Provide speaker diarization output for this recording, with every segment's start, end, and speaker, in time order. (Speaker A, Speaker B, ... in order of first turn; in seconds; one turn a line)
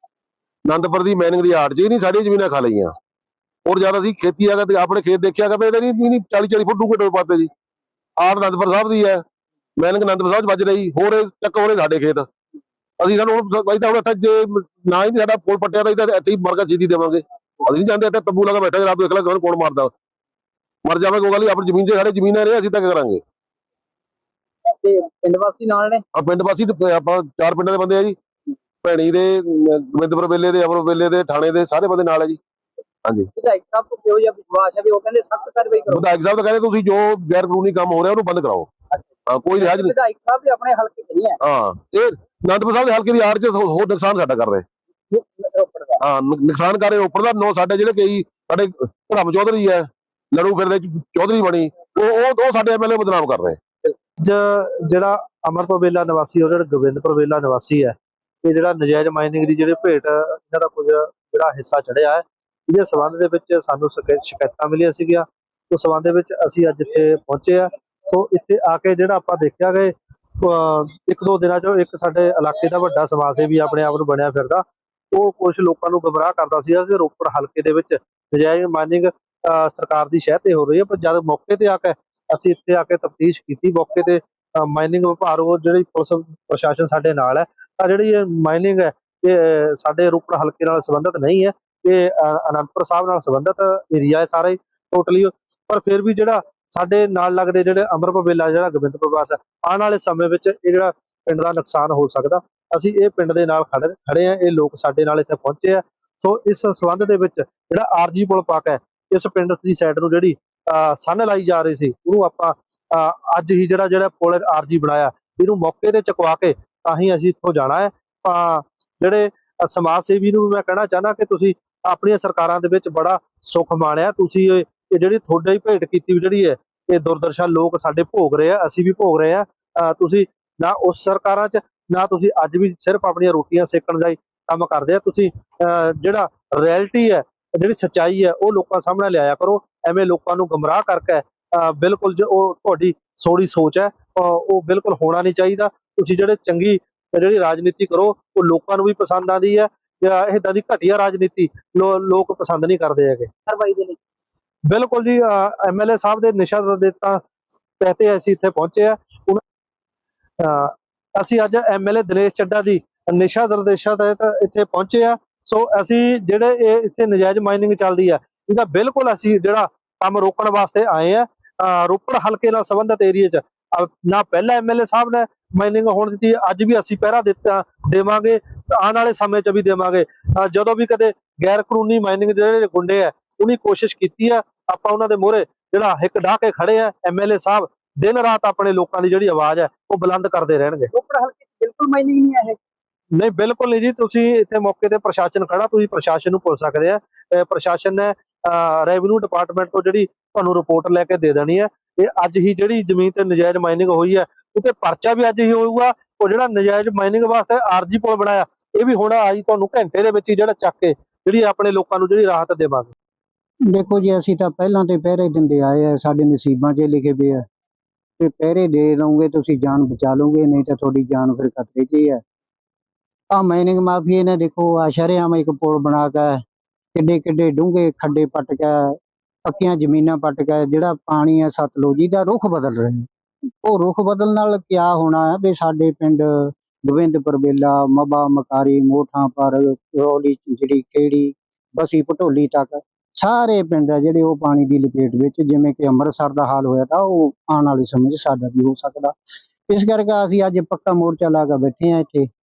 Speaker A: 0.7-2.9
Speaker A: 3.6-7.5
Speaker A: 8.2-9.2
Speaker A: 9.8-12.3
Speaker A: 13.0-19.9
Speaker A: 20.8-23.2
Speaker B: 24.8-26.0
Speaker A: 26.1-28.2
Speaker A: 28.8-32.4
Speaker B: 33.4-36.0
Speaker A: 35.9-38.7
Speaker A: 39.3-40.0
Speaker B: 39.6-41.4
Speaker A: 41.4-44.7
Speaker B: 45.1-46.0
Speaker A: 46.0-53.6
Speaker C: 54.2-153.3
Speaker B: 153.5-154.0
Speaker C: 154.7-157.2
Speaker C: 157.8-159.4
Speaker C: 160.4-190.9
Speaker B: 190.9-192.6
Speaker C: 193.1-212.9
Speaker D: 213.7-217.4
Speaker D: 218.2-222.2
Speaker D: 223.3-226.4
Speaker D: 226.9-233.1
Speaker D: 233.6-249.2
Speaker D: 249.7-252.3